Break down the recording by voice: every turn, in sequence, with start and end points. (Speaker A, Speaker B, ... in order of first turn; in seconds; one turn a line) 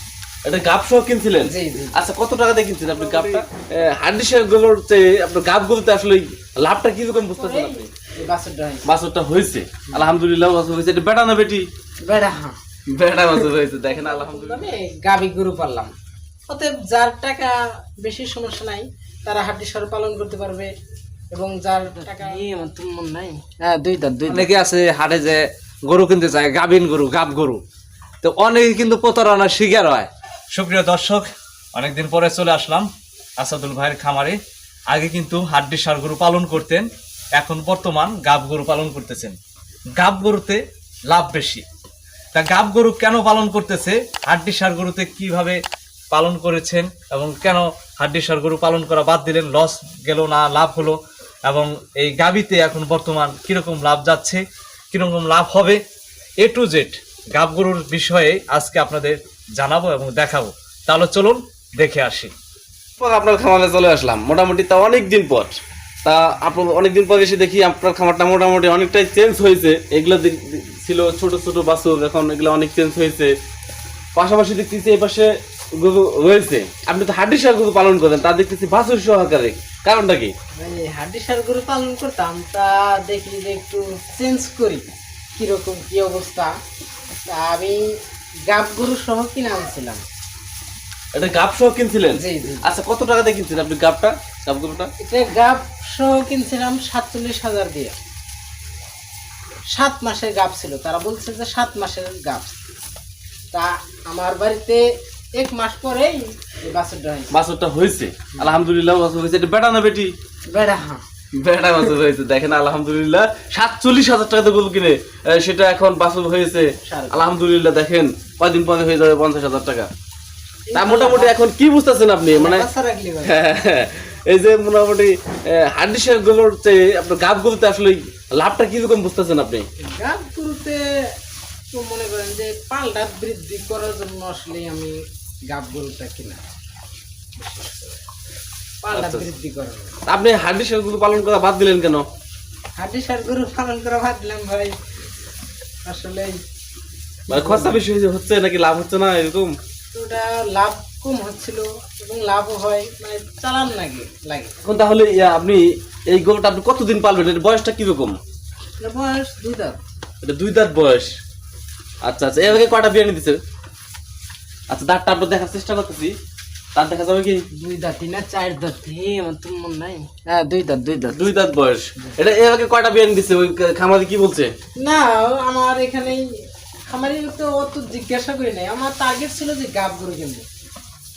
Speaker A: 0.5-7.9
Speaker B: 1.4-2.0
Speaker B: 7.3-8.8
Speaker A: 8.8-11.7
Speaker B: 12.1-12.6
Speaker A: 12.9-14.7
Speaker B: 13.9-15.9
Speaker B: 16.5-20.7
Speaker B: 21.3-24.5
Speaker C: 24.3-27.6
Speaker C: 28.2-32.9
Speaker C: 33.4-34.4
Speaker C: 34.9-39.4
Speaker C: 40.0-41.6
Speaker C: 42.3-45.6
Speaker C: 46.1-55.8
Speaker C: 56.4-62.3
Speaker A: 63.0-73.3
Speaker A: 74.2-80.3
Speaker B: 80.6-86.5
Speaker B: 87.3-87.9
Speaker B: 88.5-90.0
Speaker A: 91.1-94.9
Speaker B: 92.2-92.7
Speaker B: 95.0-98.0
Speaker B: 99.7-102.6
Speaker B: 103.5-104.8
Speaker B: 105.4-107.3
Speaker A: 107.3-110.1
Speaker B: 110.5-111.0
Speaker A: 111.3-119.9
Speaker B: 116.8-117.3
Speaker B: 120.7-121.4
Speaker A: 120.7-122.7
Speaker B: 122.3-123.3
Speaker A: 123.2-129.7
Speaker B: 129.8-130.8
Speaker B: 131.7-136.4
Speaker B: 137.4-137.9
Speaker B: 138.8-140.0
Speaker A: 138.9-139.3
Speaker A: 140.1-142.1
Speaker B: 142.8-144.8
Speaker B: 145.8-146.4
Speaker B: 147.3-147.8
Speaker A: 147.3-149.5
Speaker B: 149.9-154.5
Speaker A: 154.6-158.2
Speaker B: 158.8-159.8
Speaker A: 160.2-161.2
Speaker A: 162.0-163.4
Speaker A: 164.7-166.2
Speaker A: 166.8-167.4
Speaker B: 167.6-171.3
Speaker A: 171.1-174.5
Speaker B: 174.8-176.3
Speaker B: 176.9-180.4